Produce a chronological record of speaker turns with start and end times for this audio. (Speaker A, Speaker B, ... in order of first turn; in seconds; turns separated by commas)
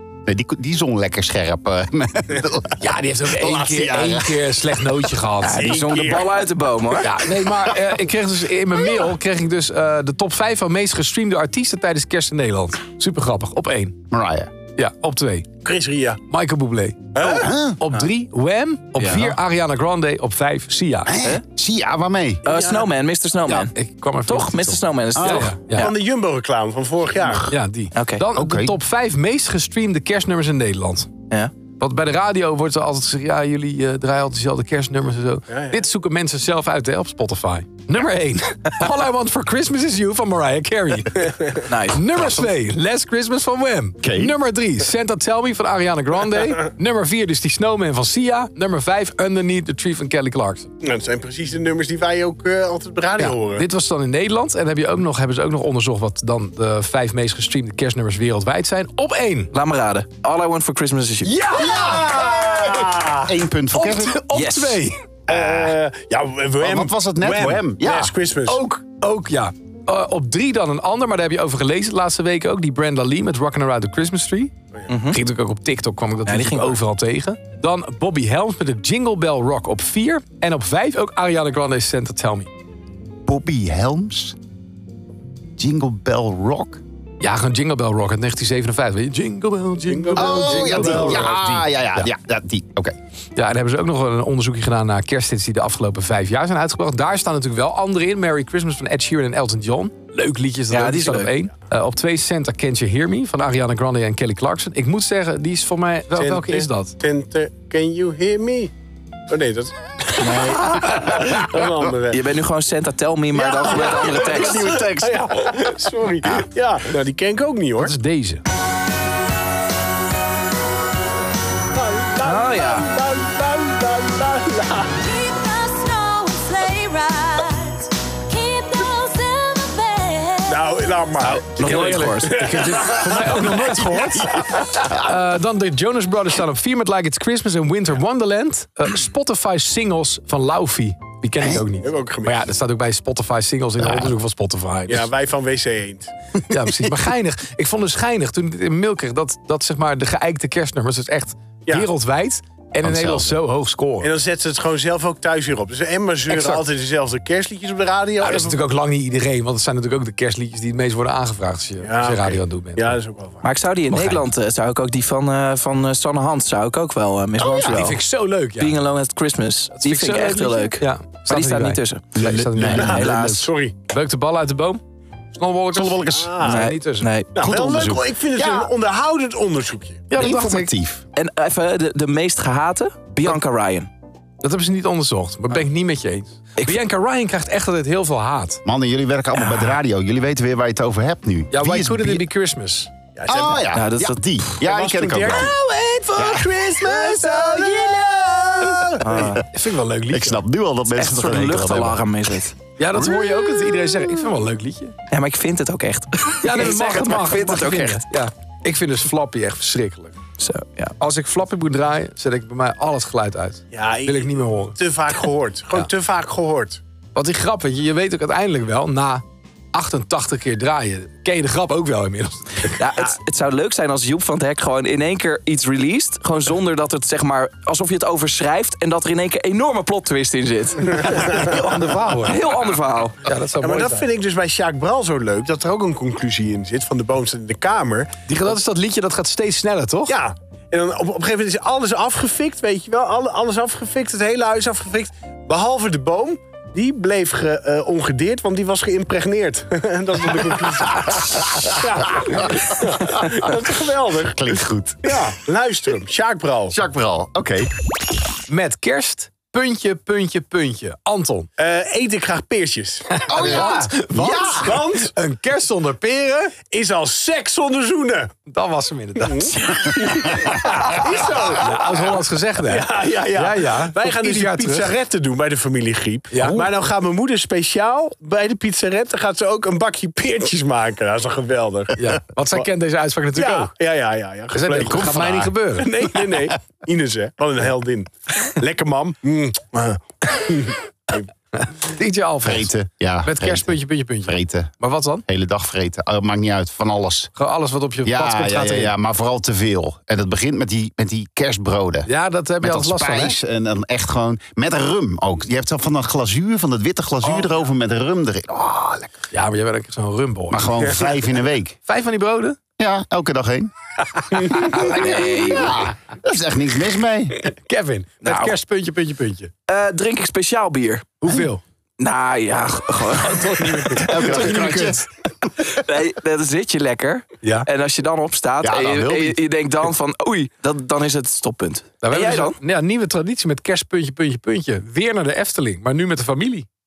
Speaker A: 0.3-4.6, Speaker B: 2.8-5.8, Speaker C: 5.4-7.1, Speaker D: 5.5-6.4, Speaker B: 7.0-14.0, Speaker A: 14.1-14.5, Speaker B: 14.8-15.5, Speaker D: 15.6-16.2, Speaker B: 16.3-21.1, Speaker D: 17.1-17.5, Speaker A: 17.4-17.8, Speaker C: 19.0-19.4, Speaker A: 21.1-22.4, Speaker D: 22.4-22.9, Speaker C: 22.5-23.7, Speaker B: 23.7-25.9, Speaker C: 24.3-25.9, Speaker A: 25.1-25.5, Speaker D: 25.8-27.5, Speaker B: 27.4-31.1, Speaker C: 27.9-28.2, Speaker A: 28.4-28.8, Speaker B: 31.8-50.7, Speaker D: 35.5-35.8, Speaker C: 41.7-42.2, Speaker A: 44.0-44.4, Speaker D: 50.8-53.6, Speaker B: 53.2-59.5, Speaker C: 59.5-61.3, Speaker B: 61.2-62.2, Speaker A: 61.5-64.2, Speaker D: 61.7-63.3, Speaker B: 63.7-65.0, Speaker C: 64.3-64.8, Speaker D: 65.3-68.6, Speaker A: 65.3-65.8, Speaker A: 66.6-68.1, Speaker B: 68.5-74.5, Speaker C: 74.9-75.2, Speaker B: 75.1-82.5, Speaker C: 76.3-76.8, Speaker A: 83.3-84.4, Speaker A: 85.6-86.8, Speaker B: 87.2-92.1, Speaker D: 89.9-91.5, Speaker A: 90.2-93.0, Speaker B: 93.4-107.0, Speaker C: 100.7-101.3, Speaker D: 106.1-108.7, Speaker D: 109.3-112.2, Speaker C: 110.2-111.0, Speaker A: 110.6-111.4, Speaker C: 112.1-114.8, Speaker D: 113.3-117.9, Speaker A: 113.7-115.7, Speaker B: 117.8-118.4, Speaker D: 121.8-124.9, Speaker C: 122.2-122.9, Speaker E: 124.9-130.8, Speaker D: 130.5-133.5, Speaker C: 131.2-132.5, Speaker B: 131.6-145.1, Speaker D: 141.8-142.4, Speaker A: 143.8-144.1, Speaker D: 144.9-146.1, Speaker B: 146.5-154.1, Speaker A: 152.8-153.4, Speaker D: 154.0-158.6, Speaker B: 156.3-156.6, Speaker B: 158.2-163.0, Speaker D: 161.8-163.4, Speaker C: 163.4-168.0, Speaker B: 163.9-164.3, Speaker A: 167.4-168.0, Speaker B: 167.7-168.8, Speaker C: 168.6-173.5, Speaker B: 169.8-173.1, Speaker A: 172.2-173.4, Speaker D: 172.7-173.7, Speaker B: 173.9-174.8, Speaker B: 175.3-177.1, Speaker A: 175.7-176.4, Speaker D: 176.1-176.6, Speaker C: 176.4-178.0, Speaker D: 177.3-180.1, Speaker A: 177.4-178.7, Speaker B: 180.1-180.7, Speaker A: 180.2-181.0, Speaker C: 181.2-183.9, Speaker B: 184.4-188.6, Speaker A: 188.7-192.2, Speaker B: 191.5-192.9, Speaker D: 193.2-193.7, Speaker A: 193.3-195.5, Speaker C: 193.7-194.2, Speaker D: 194.6-199.4, Speaker A: 196.2-198.0, Speaker A: 198.6-199.4, Speaker C: 199.0-199.4, Speaker B: 199.5-200.4, Speaker A: 200.1-202.1, Speaker C: 200.9-202.6, Speaker B: 202.8-205.0, Speaker C: 205.1-208.0, Speaker B: 206.4-210.2, Speaker C: 210.4-210.9, Speaker B: 211.0-214.8, Speaker D: 213.7-216.8, Speaker B: 217.2-222.8, Speaker C: 222.8-231.5, Speaker D: 231.0-231.6, Speaker B: 231.1-232.7, Speaker C: 232.2-233.2, Speaker B: 233.2-234.1, Speaker D: 233.6-238.1, Speaker B: 238.3-240.2, Speaker D: 240.1-256.8, Speaker A: 251.1-253.4, Speaker A: 254.3-255.3, Speaker A: 256.7-257.7, Speaker B: 258.5-261.5, Speaker D: 261.6-265.1, Speaker B: 263.1-266.6, Speaker A: 263.3-264.8, Speaker D: 266.7-268.3, Speaker B: 268.5-270.4, Speaker D: 269.2-282.7, Speaker B: 271.5-274.9, Speaker B: 276.3-276.7, Speaker B: 282.0-283.7, Speaker D: 283.3-291.3, Speaker B: 284.5-286.0, Speaker A: 284.8-285.5, Speaker B: 291.6-292.7, Speaker A: 292.4-294.7, Speaker B: 293.2-295.2, Speaker A: 295.3-297.3, Speaker B: 297.4-298.9, Speaker A: 298.1-302.1, Speaker B: 302.1-303.4, Speaker A: 302.6-309.1, Speaker D: 307.3-307.6, Speaker B: 309.3-310.8, Speaker A: 310.5-311.8, Speaker B: 311.9-312.6, Speaker A: 312.8-313.7, Speaker D: 314.3-314.7, Speaker A: 314.3-317.4, Speaker C: 314.7-315.8, Speaker B: 317.4-319.5, Speaker C: 318.2-318.6, Speaker C: 319.7-321.2, Speaker B: 321.2-321.6, Speaker C: 322.0-324.3, Speaker B: 323.2-325.1, Speaker A: 324.0-325.0, Speaker C: 325.7-332.6, Speaker B: 327.4-327.7, Speaker A: 328.6-329.4, Speaker B: 332.0-336.7